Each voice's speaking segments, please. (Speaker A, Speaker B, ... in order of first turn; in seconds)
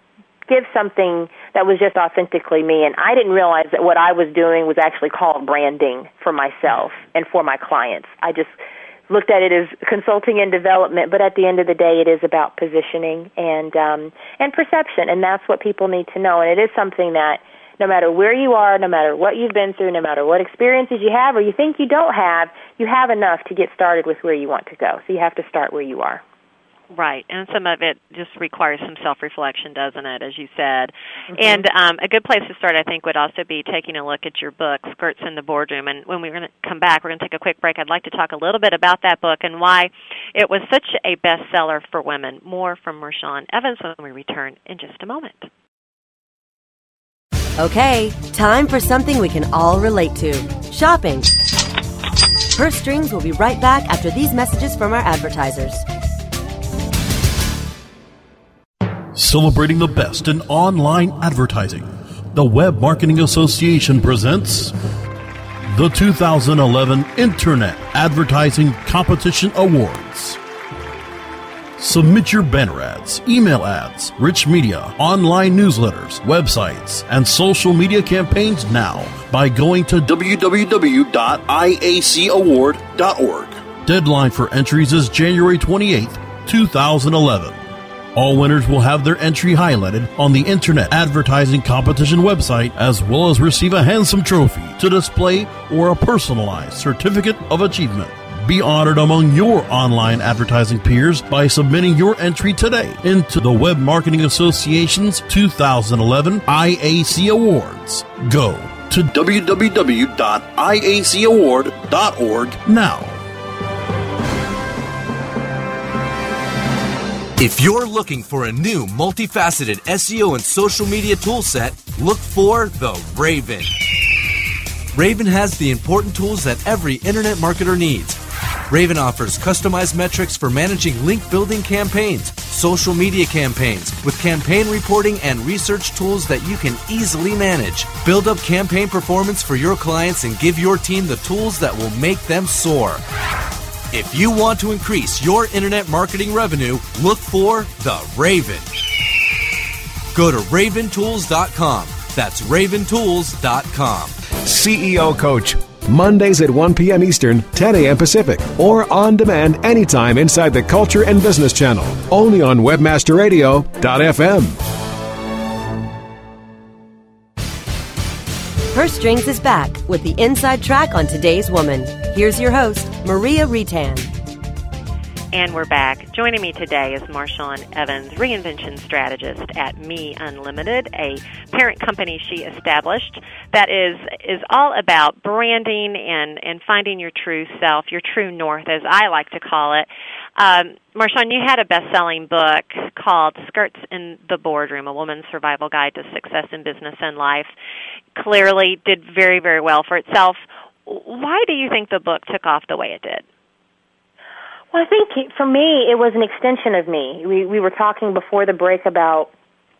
Speaker A: 0.5-8.5, 9.1-26.2, 31.4-31.6, 204.7-209.3
Speaker B: 26.9-45.5, 175.3-197.5, 198.2-203.2
Speaker C: 47.6-51.3, 52.5-55.8, 168.7-174.1
Speaker D: 59.1-64.7, 65.7-70.4, 71.8-87.6, 88.1-113.2
Speaker E: 117.4-123.7, 124.9-143.0, 143.9-148.7, 150.1-154.2
Speaker F: 154.4-164.6